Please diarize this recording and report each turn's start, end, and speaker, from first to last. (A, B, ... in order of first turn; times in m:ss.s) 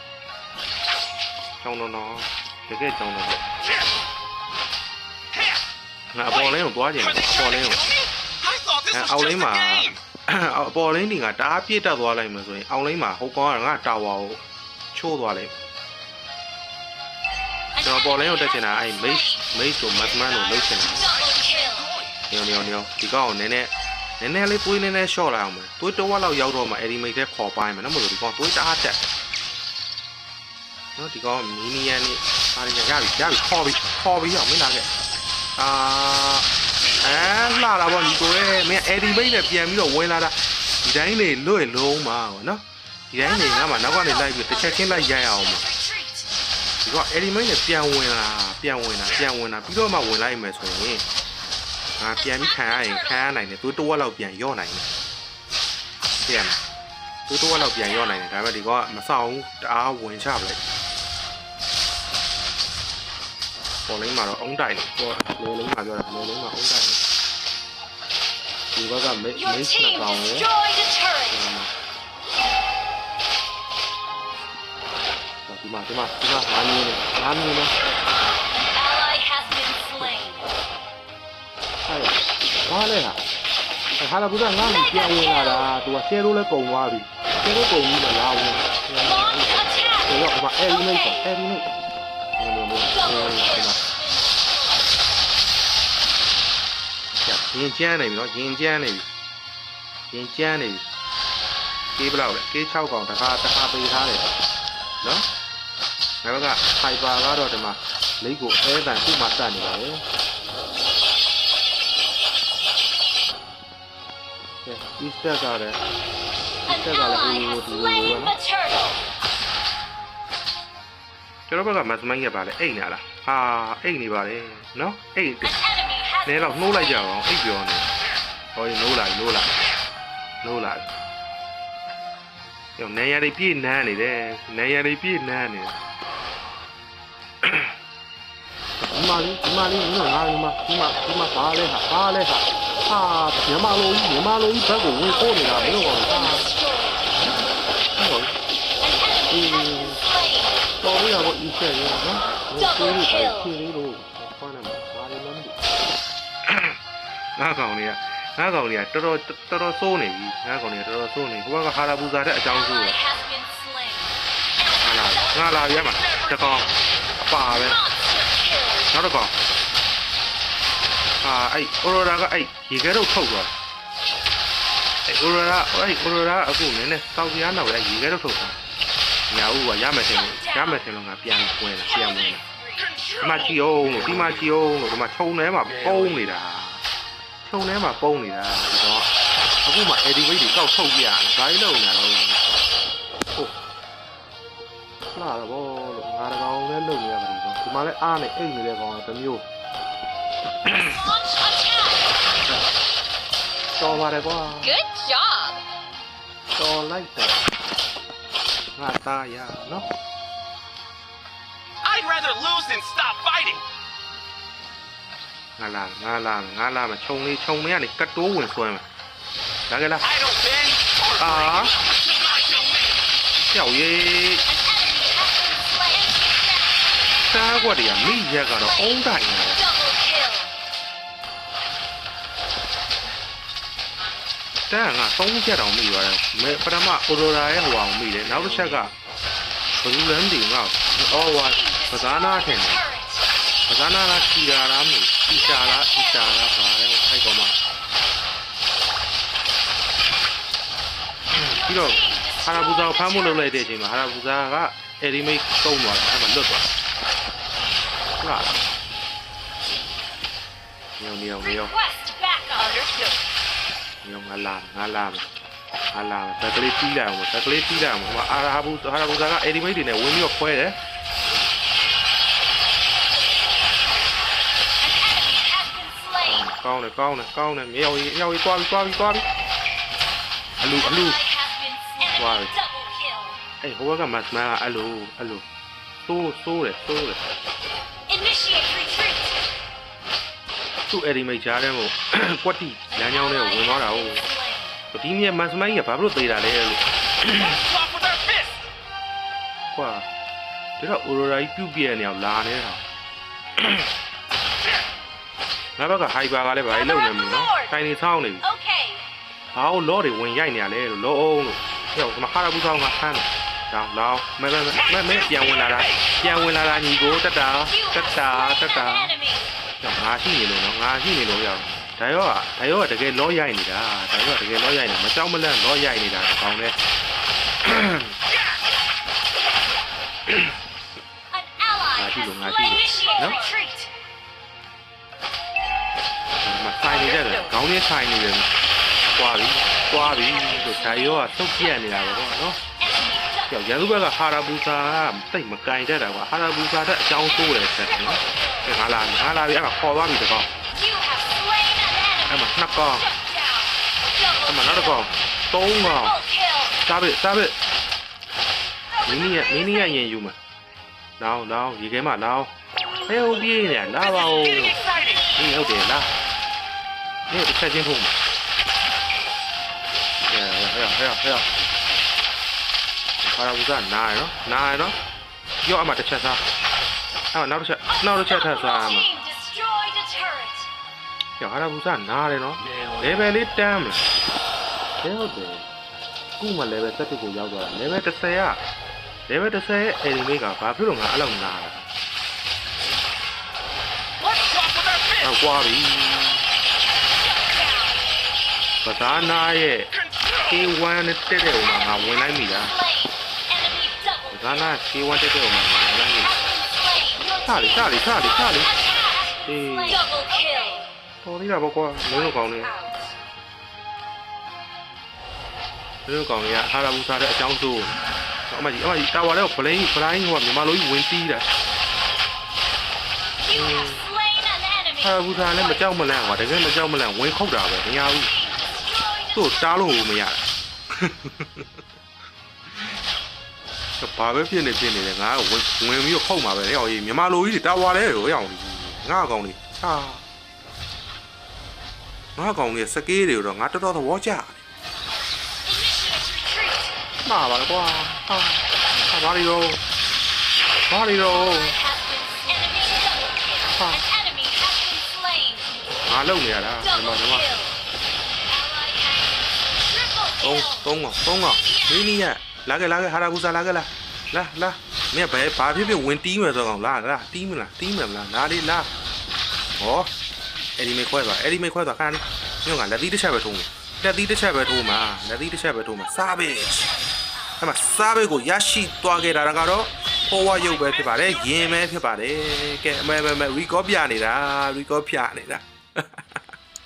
0:01.6-0:03.4 A
0:06.1-0:07.8 A
0:07.8-0:09.0 B
0:08.9-0:14.4 A
0:14.9-0:15.6 A
0:17.8-0:21.1 A
0:21.1-0:22.0 B
0:22.3-0:29.0 A
0:31.0-0:34.9 A
0:35.6-0:36.5 A
0:37.0-0:45.7 A
0:46.8-0:51.0 A
0:52.0-0:54.9 A
0:56.3-0:56.6 A
0:57.3-1:00.6 A
1:03.9-1:07.0 A
1:08.7-1:10.6 A
1:10.6-1:11.1 C
1:11.2-1:11.7 A
1:15.5-1:17.7 A
1:18.8-1:20.4 C
1:21.9-1:23.2 A
1:24.0-1:31.8 A
1:32.4-1:33.8 A
1:37.2-1:39.1 A
1:40.1-1:40.9 A
1:42.0-1:44.3 A
1:45.0-1:45.3 A
1:46.2-1:50.0 A
1:54.6-1:55.8 A
1:56.7-1:58.4 A
1:58.5-1:58.9 C
2:01.5-2:05.6 A
2:06.2-2:07.9 A
2:08.6-2:09.6 A
2:10.4-2:10.9 A
2:12.8-2:15.8 A
2:17.4-2:17.7 A
2:18.8-2:26.5 A
2:27.9-2:28.4 A
2:29.3-2:30.1 A
2:30.8-2:35.6 A
2:36.5-2:36.8 A
2:37.4-2:43.1 A
2:43.0-2:44.1 C
2:44.8-2:46.7 A
2:47.3-2:47.9 A
2:48.3-2:48.6 C
2:48.9-2:49.4 A
2:51.2-2:53.5 A
2:55.1-2:58.6 A
2:59.3-3:02.5 A
3:03.2-3:06.8 A
3:07.4-3:09.1 A
3:09.6-3:12.4 A
3:15.1-3:19.4 A
3:20.6-3:21.0 A
3:21.5-3:21.8 C
3:23.8-3:24.8 A
3:24.8-3:25.6 C
3:26.6-3:27.4 A
3:28.8-3:29.9 A
3:31.8-3:33.6 B
3:35.6-3:38.8 A
3:39.7-3:40.1 A
3:40.2-3:41.2 B
3:41.2-3:41.8 A
3:41.9-3:42.8 B
3:43.5-3:44.5 A
3:44.7-3:46.4 C
3:47.3-3:49.7 A
3:49.8-3:50.5 C
3:54.7-3:59.0 A
3:59.8-4:02.9 A
4:03.7-4:07.6 A
4:11.3-4:16.7 A
4:18.2-4:18.6 A
4:21.0-4:21.8 A
4:21.8-4:22.6 C
4:22.6-4:23.0 B
4:24.0-4:25.3 A
4:25.9-4:30.8 A
4:34.8-4:36.2 C
4:36.2-4:39.2 A
4:40.6-4:41.3 A
4:41.3-4:43.4 C
4:42.0-4:42.5 A
4:43.6-4:45.4 A
4:46.0-4:47.2 A
4:48.1-4:49.3 C
4:50.9-4:54.2 A
4:54.2-4:54.7 C
4:54.9-4:57.6 A
4:57.6-4:58.6 B
4:59.7-5:00.1 A
5:00.8-5:02.8 A
5:03.6-5:03.8 A
5:05.8-5:08.5 A
5:08.6-5:09.0 C
5:09.5-5:19.2 A
5:19.8-5:26.8 A
5:27.6-5:28.1 A
5:31.4-5:31.9 C
5:31.9-5:33.5 A
5:33.0-5:33.9 C
5:36.4-5:38.5 A
5:39.1-5:42.6 A
5:43.0-5:43.4 C
5:43.5-5:50.5 A
5:50.8-5:52.2 C
5:52.3-5:53.2 A
5:53.2-5:53.6 C
5:54.4-5:56.2 A
5:56.8-5:57.6 A
5:59.0-6:00.4 A
6:01.2-6:02.5 A
6:03.1-6:06.1 A
6:07.3-6:08.2 A
6:10.3-6:11.5 A
6:13.2-6:15.0 A
6:15.6-6:16.4 A
6:17.3-6:19.1 A
6:19.1-6:20.7 C
6:21.4-6:24.0 A
6:25.0-6:25.7 A
6:26.4-6:28.6 A
6:29.3-6:31.8 A
6:34.2-6:35.0 B
6:35.2-6:36.5 A
6:38.8-6:42.8 A
6:43.7-6:44.0 C
6:44.3-6:46.4 A
6:47.4-6:48.8 A
6:49.4-6:50.1 A
6:51.2-6:52.8 A
6:56.1-6:58.0 A
6:58.5-7:01.5 A
7:03.5-7:04.1 A
7:04.1-7:05.0 C
7:05.0-7:08.4 A
7:09.3-7:10.4 A
7:11.0-7:11.7 A
7:14.0-7:20.2 A
7:22.4-7:24.6 A
7:25.7-7:26.9 C
7:27.2-7:29.8 A
7:30.9-7:31.8 A
7:31.8-7:33.5 C
7:33.7-7:34.1 A
7:34.1-7:35.7 C
7:36.1-7:37.5 A
7:38.6-7:40.3 C
7:40.4-7:48.9 A
7:49.8-7:50.1 A
7:50.8-7:57.0 A
7:57.6-8:06.4 A